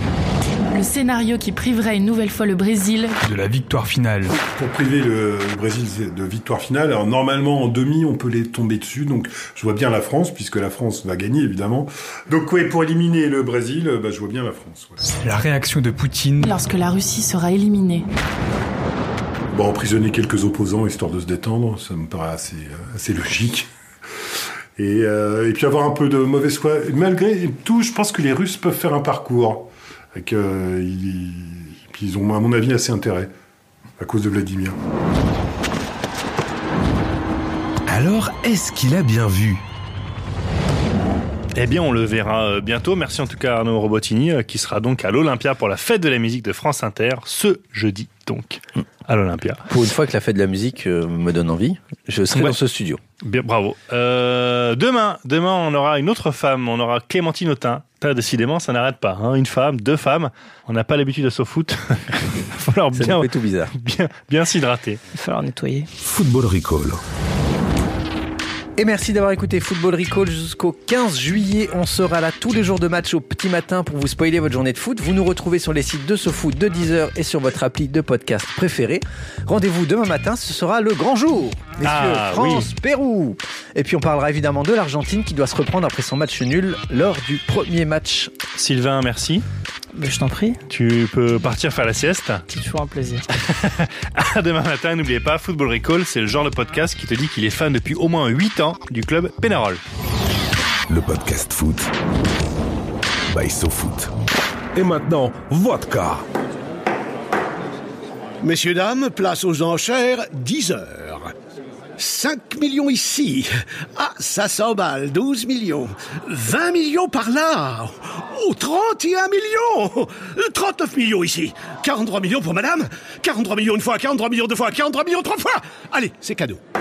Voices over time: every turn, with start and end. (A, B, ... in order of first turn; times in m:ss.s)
0:00.7-0:03.2 A
0:03.2-0:04.4 B
0:04.5-0:15.0 C
0:15.2-0:16.5 B
0:16.4-0:18.1 A
0:19.5-0:23.7 C
0:24.8-0:33.3 C
0:34.0-0:34.8 C
0:37.9-0:39.6 D
0:41.5-0:49.7 E
0:49.7-0:53.0 F
0:53.2-1:05.0 E
1:02.9-1:03.7 F
1:05.1-1:05.9 G
1:06.0-1:07.0 D
1:08.8-1:28.3 F
1:21.8-1:22.7 E
1:28.6-1:29.4 E
1:29.9-1:30.6 G
1:30.7-1:32.4 E
1:32.5-1:33.2 G
1:33.3-1:39.8 E
1:40.9-1:41.9 D
1:43.3-1:44.1 D
1:44.7-1:46.2 D
1:48.4-1:51.3 H
1:52.0-2:06.6 H